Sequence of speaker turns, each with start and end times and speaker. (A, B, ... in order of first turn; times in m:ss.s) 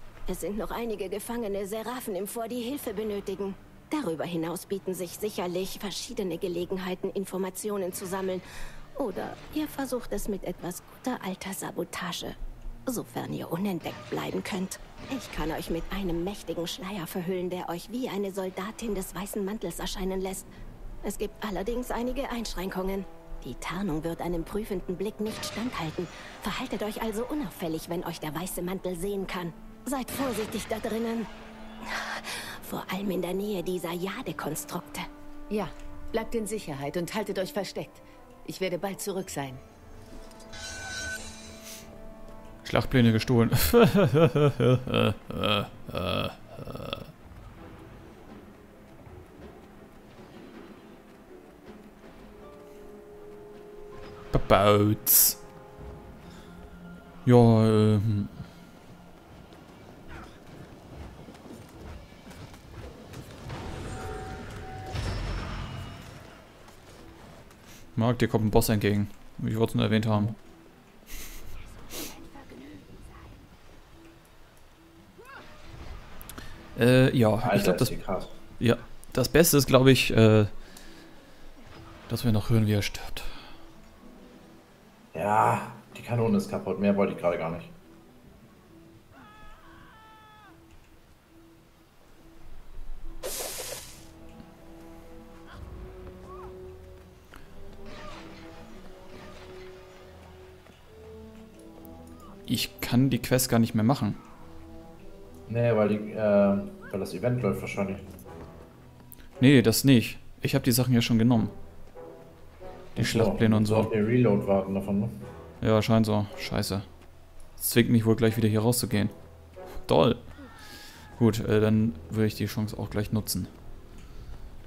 0:00.3-0:08.4 A
0:09.0-0:20.5 A
0:21.0-0:31.3 A
0:31.8-0:35.1 A
0:35.5-0:39.6 B
0:42.6-0:47.1 C
0:54.3-0:55.4 C
0:57.2-0:58.4 C
1:08.0-1:10.4 C
1:16.7-1:17.9 C
1:17.4-1:18.4 D
1:18.6-1:20.6 C
1:22.1-1:23.4 C
1:25.1-1:27.7 D
1:42.4-1:44.2 C
1:45.5-1:48.1 D
1:49.4-1:51.5 C
1:53.0-1:53.9 C
1:53.0-1:55.3 D
1:55.6-1:56.8 C
1:57.6-1:59.1 C
1:59.8-2:03.5 C